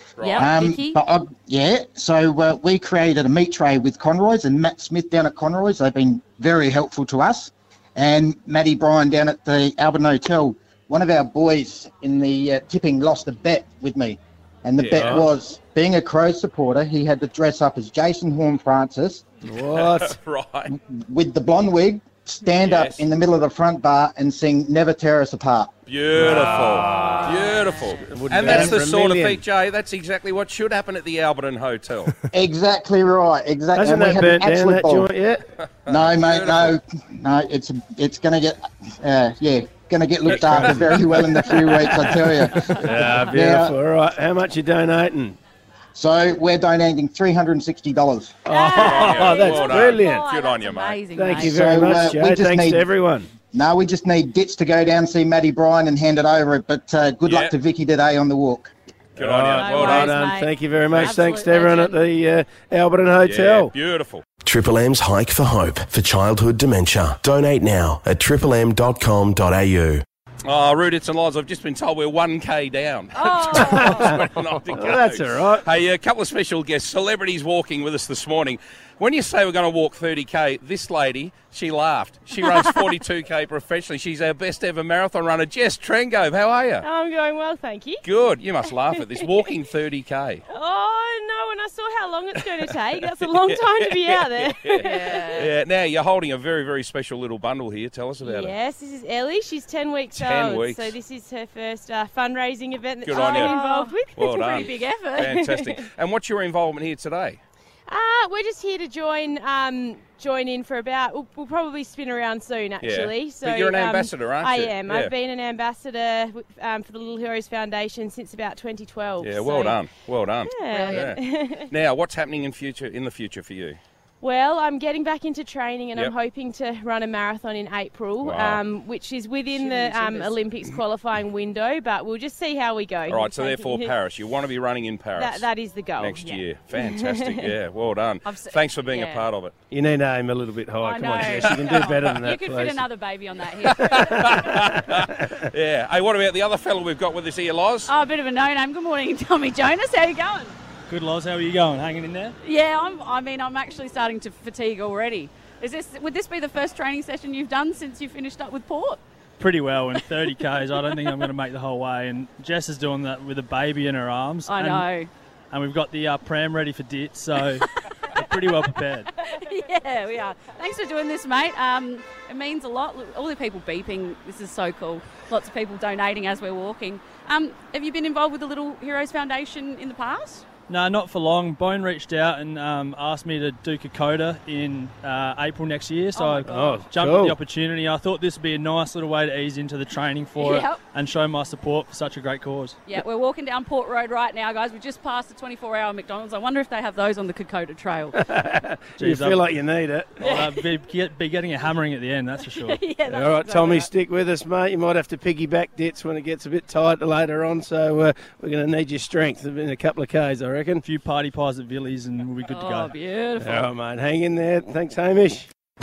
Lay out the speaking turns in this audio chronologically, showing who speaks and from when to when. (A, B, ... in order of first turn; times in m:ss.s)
0:00.2-0:00.5 A
0:00.2-0:01.0 B
0:00.4-0:19.2 C
0:14.8-0:15.3 A
0:15.0-0:15.3 D
0:19.4-0:20.2 D
0:19.7-0:20.7 A
0:20.7-0:25.7 C
0:22.6-0:23.0 A
0:25.9-0:32.1 A
0:26.1-0:29.4 D
0:26.2-0:28.7 B
0:32.3-0:35.1 C
0:33.7-0:35.4 D
0:35.8-0:36.8 A
0:35.9-0:43.7 C
0:40.2-0:41.0 A
0:40.3-0:45.4 D
0:42.7-0:43.3 B
0:45.9-0:48.4 C
0:48.4-0:50.2 D
0:48.4-0:51.6 B
0:48.7-0:51.0 A
0:51.1-0:53.3 D
0:51.4-0:52.9 C
0:53.5-0:58.7 C
0:57.2-0:57.5 A
0:59.2-1:00.2 A
0:59.2-1:03.7 D
0:59.5-1:02.0 B
1:00.9-1:01.2 A
1:03.2-1:04.2 A
1:04.4-1:10.0 E
1:10.4-1:26.8 A
1:13.1-1:14.1 B
1:13.6-1:14.2 D
1:14.7-1:15.6 D
1:22.4-1:22.8 B
1:26.8-1:28.0 F
1:28.0-1:30.4 A
1:28.9-1:29.3 F
1:30.5-1:35.4 F
1:32.6-1:38.5 A
1:34.8-1:35.5 B
1:38.2-1:44.7 F
1:40.1-1:41.0 A
1:43.0-1:43.5 A
1:43.1-1:45.3 B
1:44.2-1:47.4 A
1:45.2-1:45.8 F
1:47.9-1:59.8 F
1:52.8-1:55.1 A
1:59.2-2:03.8 A
2:00.5-2:01.7 F
2:00.7-2:01.1 B
2:04.2-2:13.9 F
2:08.2-2:08.6 A
2:09.5-2:10.4 B
2:13.1-2:19.5 A
2:15.1-2:17.5 F
2:18.2-2:19.2 B
2:19.7-2:22.8 D
2:20.8-2:24.5 B
2:21.3-2:22.1 A
2:23.7-2:27.9 A
2:23.8-2:25.3 D
2:27.9-2:30.5 B
2:30.9-2:32.3 G
2:32.4-2:39.0 B
2:39.4-2:44.9 G
2:44.5-2:45.1 B
2:45.5-2:49.1 G
2:49.2-3:00.4 B
3:00.7-3:12.8 G
3:06.1-3:06.8 B
3:06.5-3:07.4 D
3:10.4-3:10.8 B
3:12.9-3:18.2 B
3:18.2-3:20.2 D
3:19.0-3:19.5 G
3:20.2-3:20.6 B
3:20.2-3:22.8 G
3:22.6-3:23.9 B
3:23.1-3:30.8 D
3:30.8-3:32.9 G
3:32.5-3:33.7 B
3:33.4-3:35.5 D